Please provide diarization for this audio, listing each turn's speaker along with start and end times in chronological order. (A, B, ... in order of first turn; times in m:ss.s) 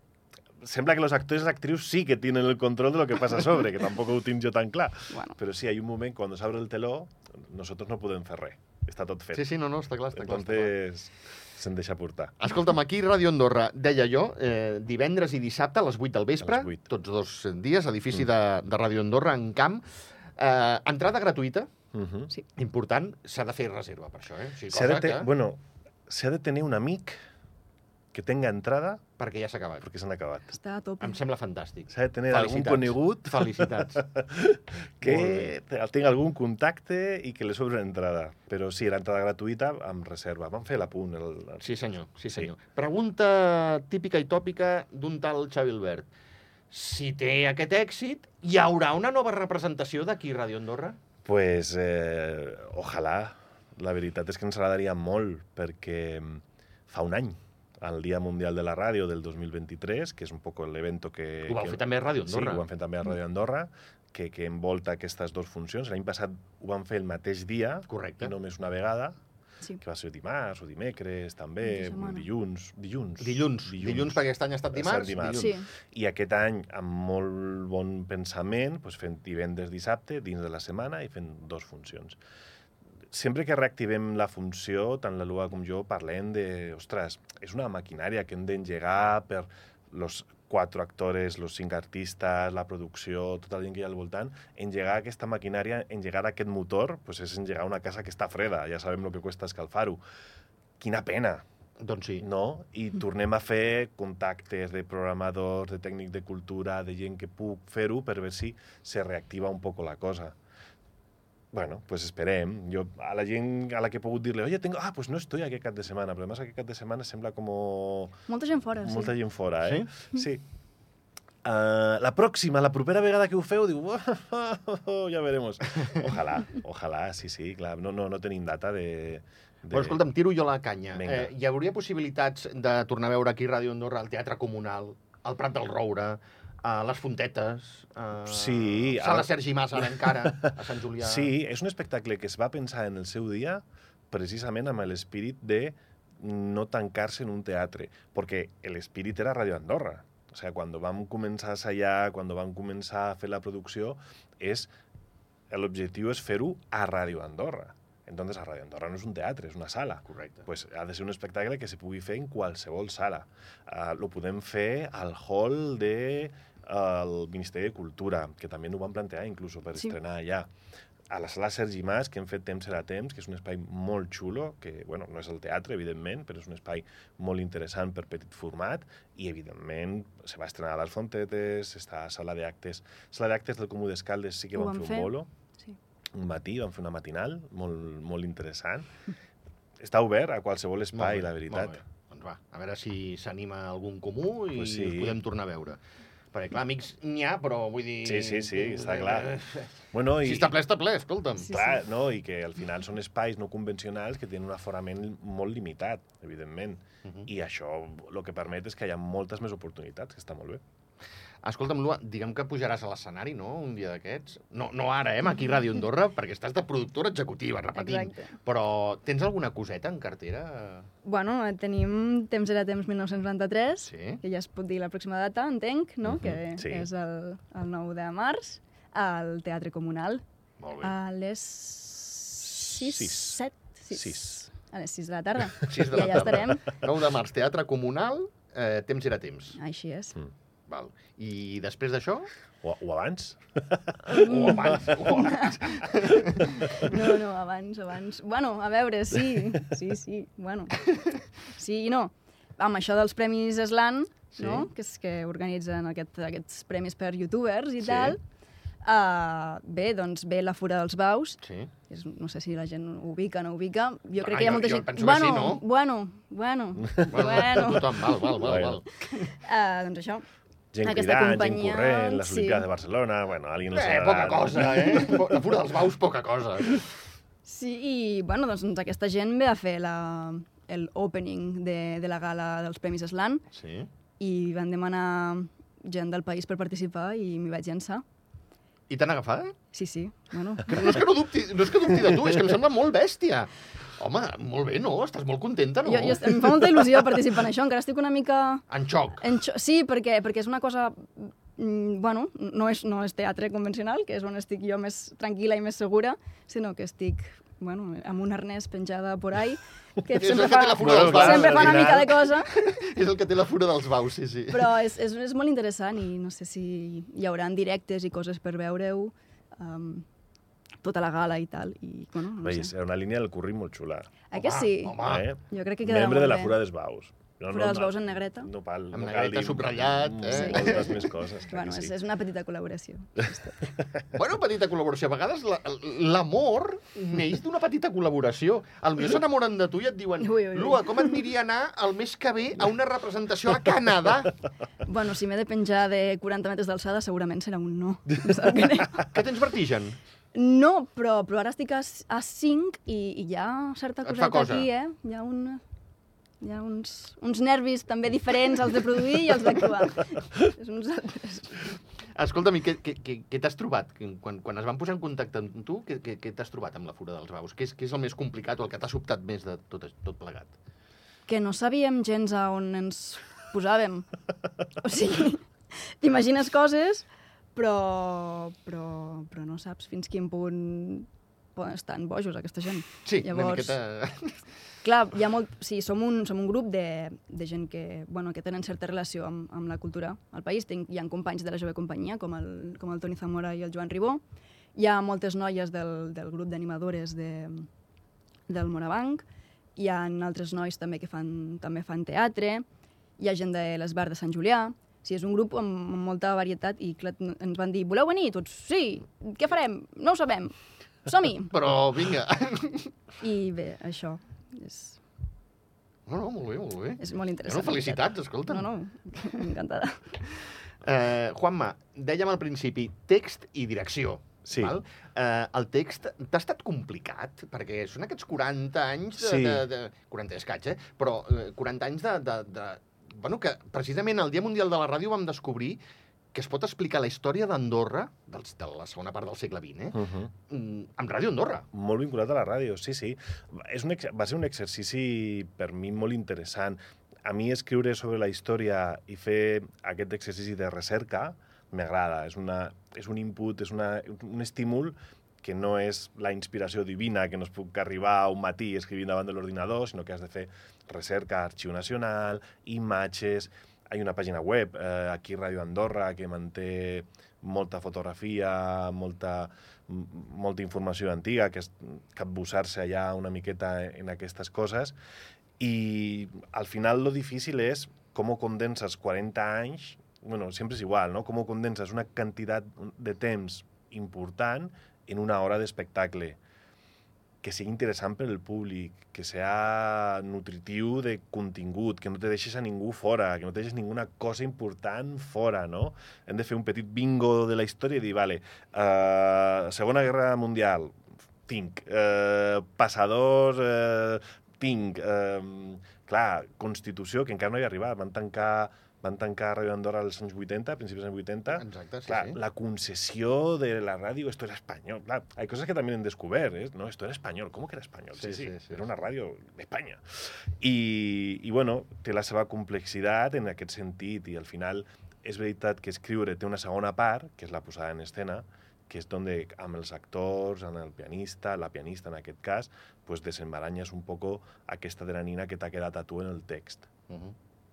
0:00.6-0:09.5 A
0:05.1-0:05.4 B
0:09.3-0:10.7 C
0:10.1-0:12.4 A
0:12.4-0:19.8 C
0:16.4-0:16.8 A
0:20.4-0:21.7 C
0:21.9-0:22.3 A
0:22.6-0:25.3 C
0:24.7-0:27.2 A
0:28.1-0:29.0 A
0:29.2-0:29.8 C
0:29.8-0:30.5 A
0:30.5-0:31.2 B
0:31.0-0:34.0 C
0:31.9-0:41.7 A
0:35.0-0:35.5 C
0:41.6-0:46.1 C
0:46.7-0:51.0 C
0:51.2-1:09.2 A
1:01.5-1:02.6 C
1:07.9-1:08.3 C
1:09.8-1:14.2 A
1:11.6-1:12.2 B
1:13.2-1:15.5 C
1:14.7-1:22.2 A
1:15.3-1:15.7 B
1:23.1-1:40.0 A
1:40.8-1:41.4 A
1:41.8-1:42.2 C
1:42.2-1:50.3 A
1:51.5-1:58.2 A
1:58.3-1:59.1 B
1:58.8-2:00.4 A
1:59.6-1:59.9 C
2:01.4-2:10.0 A
2:09.7-2:21.3 C
2:10.9-2:11.3 A
2:18.2-2:34.7 A
2:35.5-2:50.5 A
2:40.1-2:40.4 C
2:51.1-3:05.3 A
3:04.5-3:05.1 B
3:06.1-3:08.9 A
3:09.8-3:11.8 A
3:10.9-3:15.8 C
3:14.5-3:15.2 A
3:16.3-3:19.7 C
3:18.0-3:19.3 A
3:19.9-3:20.5 A
3:20.2-3:21.6 C
3:21.5-3:30.6 A
3:31.4-3:40.9 C
3:37.7-3:38.3 B
3:41.0-3:50.2 B
3:43.9-3:44.2 C
3:46.0-3:46.9 A
3:50.6-3:50.9 C
3:50.8-3:56.7 B
3:52.5-3:53.4 A
3:53.9-3:54.4 A
3:55.6-3:59.6 C
3:59.6-4:00.2 B
4:00.7-4:02.3 C
4:02.6-4:04.8 A
4:04.1-4:05.8 B
4:04.1-4:06.9 C
4:06.4-4:18.2 B
4:14.4-4:14.7 C
4:17.8-4:18.2 C
4:18.8-4:28.4 B
4:21.4-4:21.7 C
4:24.2-4:25.6 C
4:27.1-4:29.3 C
4:28.4-4:28.8 A
4:29.1-4:30.2 B
4:30.7-4:35.1 A
4:30.8-4:32.6 B
4:33.7-4:36.9 C
4:37.4-4:43.4 B
4:43.5-4:43.9 C
4:44.2-4:48.0 B
4:48.9-4:49.5 C
4:49.7-4:51.0 B
4:50.7-4:56.9 C
4:55.8-4:58.6 B
4:58.7-4:59.2 C
4:59.2-5:12.5 B
5:10.2-5:14.7 C
5:10.8-5:12.2 A
5:14.5-5:20.0 B
5:20.8-5:22.7 B
5:22.4-5:24.1 A
5:24.3-5:26.6 B
5:24.3-5:25.3 C
5:25.0-5:31.9 A
5:27.5-5:28.5 B
5:28.9-5:31.0 C
5:30.3-5:33.7 B
5:34.1-5:44.3 C
5:40.2-5:41.2 B
5:44.8-5:49.1 B
5:49.0-5:50.0 C
5:50.3-5:55.6 B
5:54.0-5:54.7 C
5:56.4-6:01.6 B
6:02.1-6:10.5 C
6:11.3-6:14.1 B
6:14.8-6:23.8 B
6:23.0-6:24.4 C
6:24.8-6:34.2 B
6:34.8-6:37.7 B
6:38.5-6:39.2 B
6:39.8-6:42.6 B
6:43.2-6:51.5 B
6:51.5-6:52.9 C
6:53.2-6:55.0 B
6:56.1-6:58.7 C
6:57.0-7:00.1 B
7:00.8-7:15.8 C
7:04.5-7:04.8 A
7:09.2-7:09.7 A
7:16.3-7:21.7 C
7:19.9-7:20.3 A
7:21.7-7:54.9 A
7:55.6-8:06.4 A
8:07.4-8:56.9 A
8:31.5-8:32.4 C
8:38.2-8:38.8 C
8:57.1-8:57.3 C